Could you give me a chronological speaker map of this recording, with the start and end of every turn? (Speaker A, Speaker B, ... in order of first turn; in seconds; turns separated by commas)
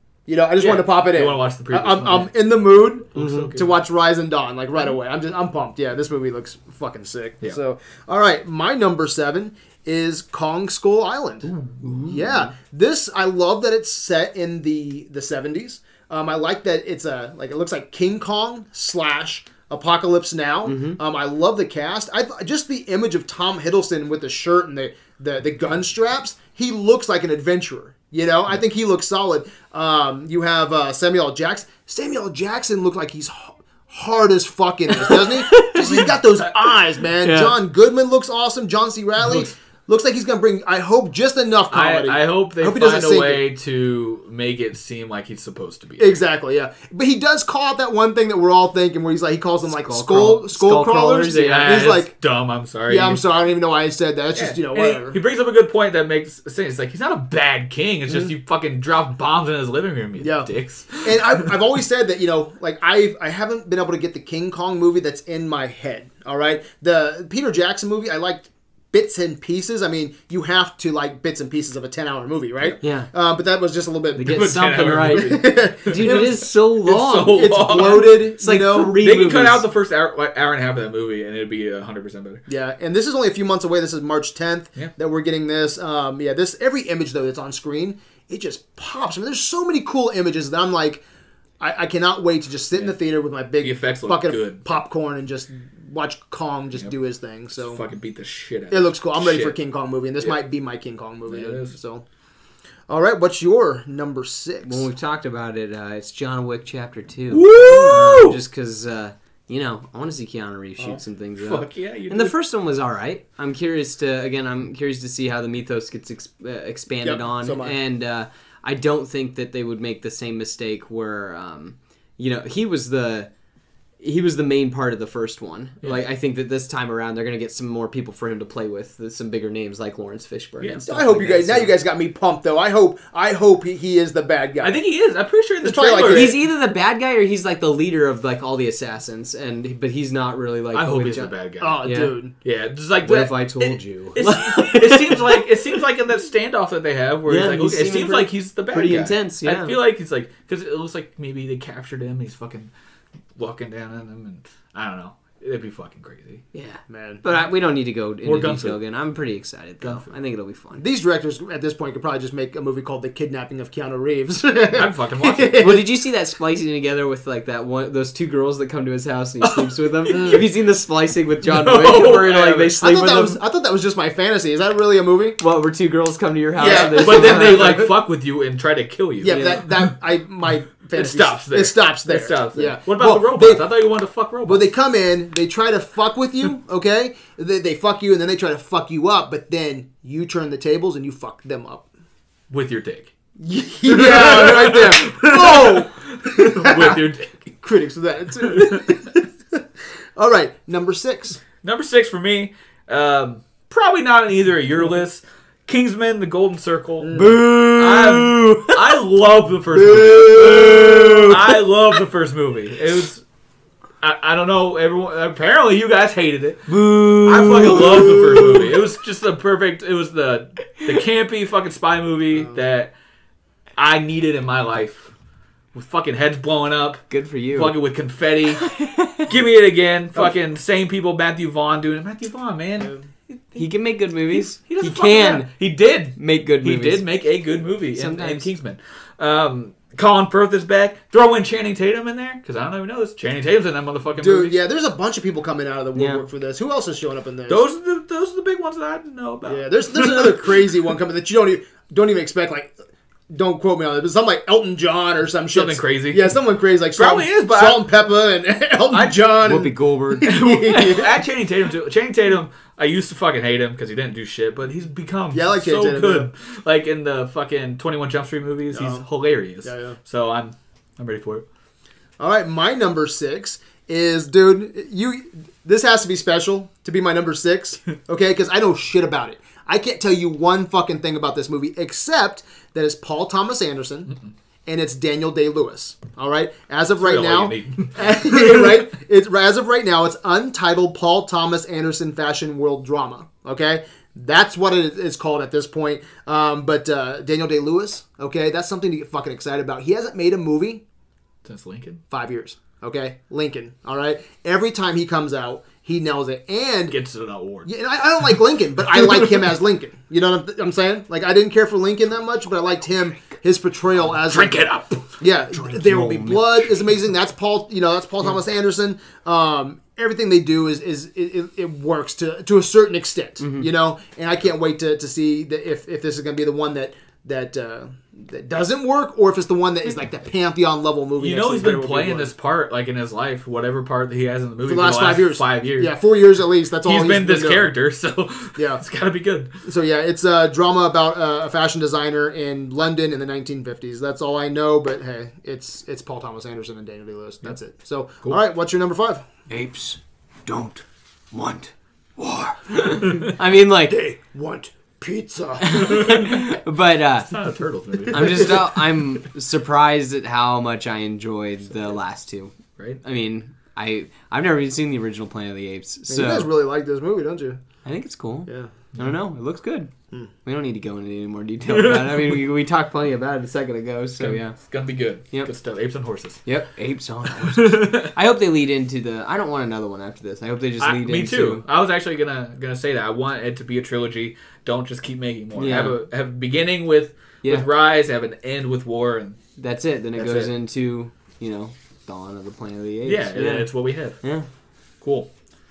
Speaker A: 0.3-11.5, Speaker B: 0.6-2.3, Speaker B: 3.1-3.7, Speaker B: 11.5-12.2, Speaker A: 12.0-43.4, Speaker C: 20.6-21.0, Speaker C: 35.0-36.0, Speaker B: 35.8-36.1, Speaker C: 37.2-37.5, Speaker B: 41.7-46.1, Speaker A: 46.0-52.1, Speaker C: 49.7-51.9, Speaker B: 51.3-53.2, Speaker A: 52.9-55.2, Speaker B: 54.3-61.6, Speaker A: 60.2-60.5, Speaker A: 61.0-76.4, Speaker C: 72.8-73.1, Speaker C: 74.2-79.6, Speaker B: 74.2-78.2, Speaker A: 77.2-79.0, Speaker B: 78.9-82.4, Speaker A: 82.5-91.0, Speaker A: 91.6-97.8, Speaker B: 93.6-94.6, Speaker B: 97.5-99.5, Speaker A: 98.7-102.0, Speaker B: 101.3-101.7, Speaker A: 102.9-104.8, Speaker C: 104.6-123.3, Speaker B: 107.3-108.4, Speaker B: 111.4-112.3, Speaker A: 117.0-117.8, Speaker C: 124.0-131.7, Speaker A: 130.9-134.8, Speaker B: 134.6-136.4, Speaker A: 135.6-136.4, Speaker C: 136.1-141.3, Speaker B: 140.7-141.8, Speaker A: 141.6-142.3, Speaker C: 141.8-142.1, Speaker B: 142.4-152.7, Speaker C: 143.0-145.8, Speaker C: 147.3-149.8, Speaker B: 153.3-156.4, Speaker C: 156.5-160.8, Speaker A: 156.9-157.2, Speaker B: 158.2-158.8, Speaker B: 159.8-160.1, Speaker A: 160.8-165.9, Speaker B: 164.7-165.7, Speaker C: 165.6-173.4, Speaker B: 169.4-170.4, Speaker A: 170.1-170.4, Speaker B: 171.4-172.7, Speaker A: 172.8-175.4, Speaker C: 175.4-177.8, Speaker A: 176.6-177.9, Speaker B: 176.6-179.5, Speaker A: 179.2-183.7, Speaker C: 179.2-179.6, Speaker B: 180.9-184.7, Speaker A: 184.4-191.9, Speaker B: 192.5-193.1, Speaker A: 193.4-197.0, Speaker B: 193.8-197.5, Speaker A: 197.6-199.6, Speaker B: 198.4-198.9, Speaker A: 200.2-201.4, Speaker B: 201.6-213.2, Speaker A: 207.0-207.4, Speaker C: 207.1-209.0, Speaker A: 209.7-211.4, Speaker C: 210.2-211.5, Speaker B: 214.0-216.7, Speaker C: 216.7-218.7, Speaker B: 217.2-222.9, Speaker A: 218.0-218.5, Speaker B: 223.8-225.1, Speaker B: 225.7-232.9, Speaker C: 227.1-227.7, Speaker C: 228.6-229.3, Speaker C: 233.5-235.5, Speaker B: 234.3-244.5, Speaker C: 236.2-237.0, Speaker C: 237.9-238.5, Speaker A: 244.2-247.6, Speaker C: 245.9-246.2, Speaker B: 247.5-250.5, Speaker A: 249.4-252.7, Speaker A: 253.3-261.2, Speaker B: 255.5-256.3, Speaker B: 256.9-257.9, Speaker B: 258.9-259.2, Speaker C: 259.4-260.4, Speaker B: 260.2-271.4, Speaker A: 265.3-266.3, Speaker A: 268.7-269.0, Speaker A: 269.6-270.0, Speaker A: 272.2-284.1, Speaker A: 284.6-300.8, Speaker B: 287.0-288.8, Speaker B: 301.4-302.0, Speaker A: 302.1-306.9, Speaker B: 306.9-307.7, Speaker A: 307.6-314.6, Speaker B: 314.1-315.2, Speaker A: 315.2-332.3, Speaker C: 315.5-316.4, Speaker C: 323.4-323.7, Speaker B: 331.2-335.9, Speaker A: 334.6-337.7, Speaker B: 336.8-339.5, Speaker A: 338.6-338.8, Speaker A: 339.6-349.2, Speaker C: 349.5-354.0, Speaker A: 353.9-356.1, Speaker C: 355.6-357.3, Speaker B: 355.7-356.5, Speaker B: 357.3-358.9, Speaker C: 358.1-366.5, Speaker A: 366.1-367.6, Speaker C: 367.8-369.9, Speaker A: 368.5-368.7, Speaker C: 370.4-374.6, Speaker B: 371.7-372.4, Speaker B: 374.2-376.4, Speaker C: 376.4-381.6, Speaker B: 377.3-378.1, Speaker B: 380.8-389.4, Speaker C: 385.6-386.0, Speaker C: 389.6-393.7, Speaker B: 390.2-390.5, Speaker B: 393.0-394.2, Speaker B: 395.0-395.3